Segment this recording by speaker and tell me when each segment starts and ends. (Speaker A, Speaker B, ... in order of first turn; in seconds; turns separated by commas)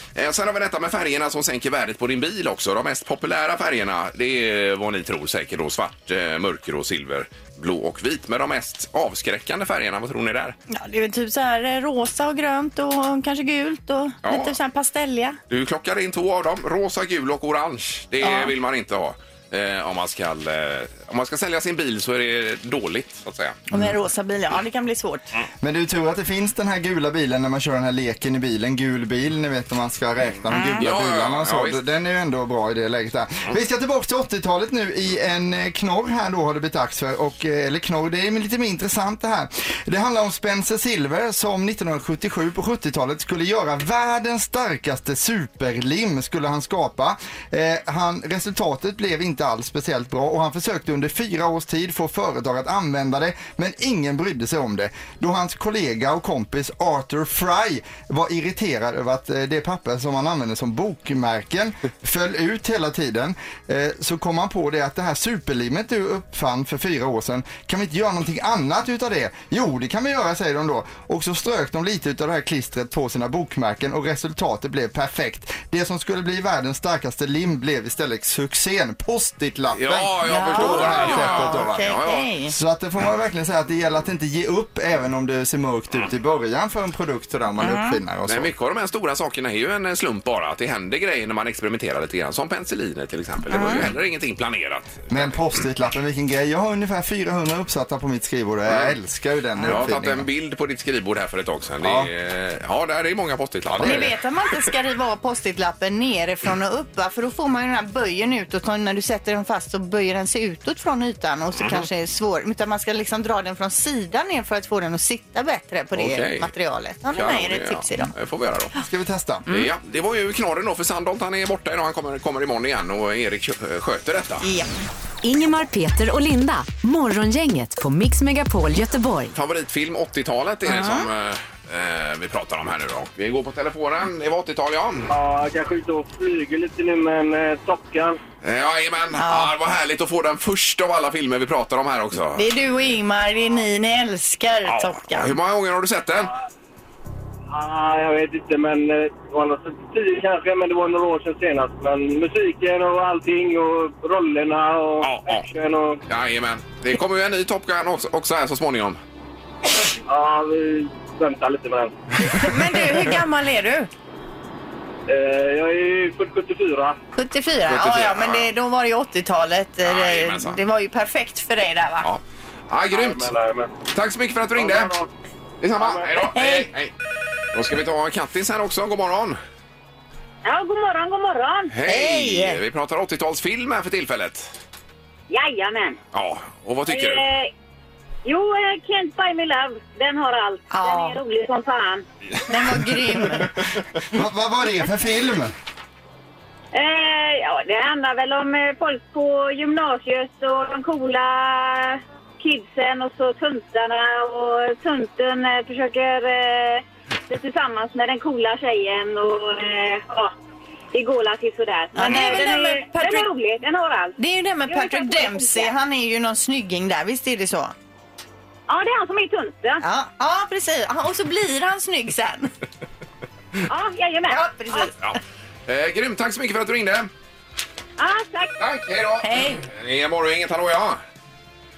Speaker A: 0.1-10.6, Speaker B: 10.7-15.4, Speaker A: 14.2-14.6, Speaker A: 15.5-23.6, Speaker B: 18.2-18.5, Speaker B: 23.7-25.3, Speaker C: 25.6-81.9, Speaker B: 30.5-30.9, Speaker A: 30.8-31.8, Speaker A: 79.7-82.3, Speaker B: 80.3-82.5, Speaker C: 82.5-88.5, Speaker B: 87.6-88.0, Speaker A: 88.3-95.5, Speaker B: 93.5-93.8, Speaker C: 95.1-100.3, Speaker A: 98.7-99.0, Speaker A: 99.7-104.2, Speaker C: 101.8-102.1, Speaker C: 103.7-104.1, Speaker B: 103.8-118.1, Speaker A: 111.6-111.9, Speaker A: 116.0-116.5, Speaker A: 117.1-118.7, Speaker C: 118.8-119.5, Speaker A: 119.5-124.5, Speaker B: 124.4-124.7, Speaker D: 125.2-129.3, Speaker A: 129.3-135.1, Speaker B: 130.7-131.1, Speaker E: 135.1-138.2, Speaker A: 138.4-142.4, Speaker B: 139.2-139.5, Speaker B: 142.4-145.3, Speaker A: 144.7-146.3, Speaker E: 147.5-156.0, Speaker A: 155.0-155.5, Speaker A: 156.1-159.0, Speaker E: 160.1-162.0, Speaker B: 162.3-163.9, Speaker E: 165.1-167.0, Speaker B: 167.2-172.1, Speaker A: 167.7-168.5, Speaker A: 169.8-170.6, Speaker A: 172.0-173.3, Speaker E: 172.9-173.7, Speaker A: 173.9-174.9, Speaker E: 174.6-175.1, Speaker A: 175.6-176.9, Speaker E: 175.8-176.3, Speaker B: 176.3-176.7, Speaker A: 177.5-179.4, Speaker F: 180.4-181.7, Speaker A: 181.7-184.5, Speaker B: 181.9-182.6, Speaker F: 185.3-186.0, Speaker A: 186.1-187.2, Speaker F: 186.9-187.5, Speaker F: 188.2-192.1, Speaker B: 190.7-191.2, Speaker B: 192.5-193.5, Speaker C: 194.1-195.5, Speaker F: 196.7-210.3, Speaker F: 210.9-214.2, Speaker B: 211.9-213.3, Speaker B: 214.2-217.7, Speaker F: 214.7-215.7, Speaker F: 218.7-219.8, Speaker B: 219.8-222.5, Speaker F: 223.7-224.9, Speaker B: 224.3-224.9, Speaker A: 225.0-227.1, Speaker F: 228.0-228.5, Speaker A: 228.6-231.0, Speaker B: 229.2-229.6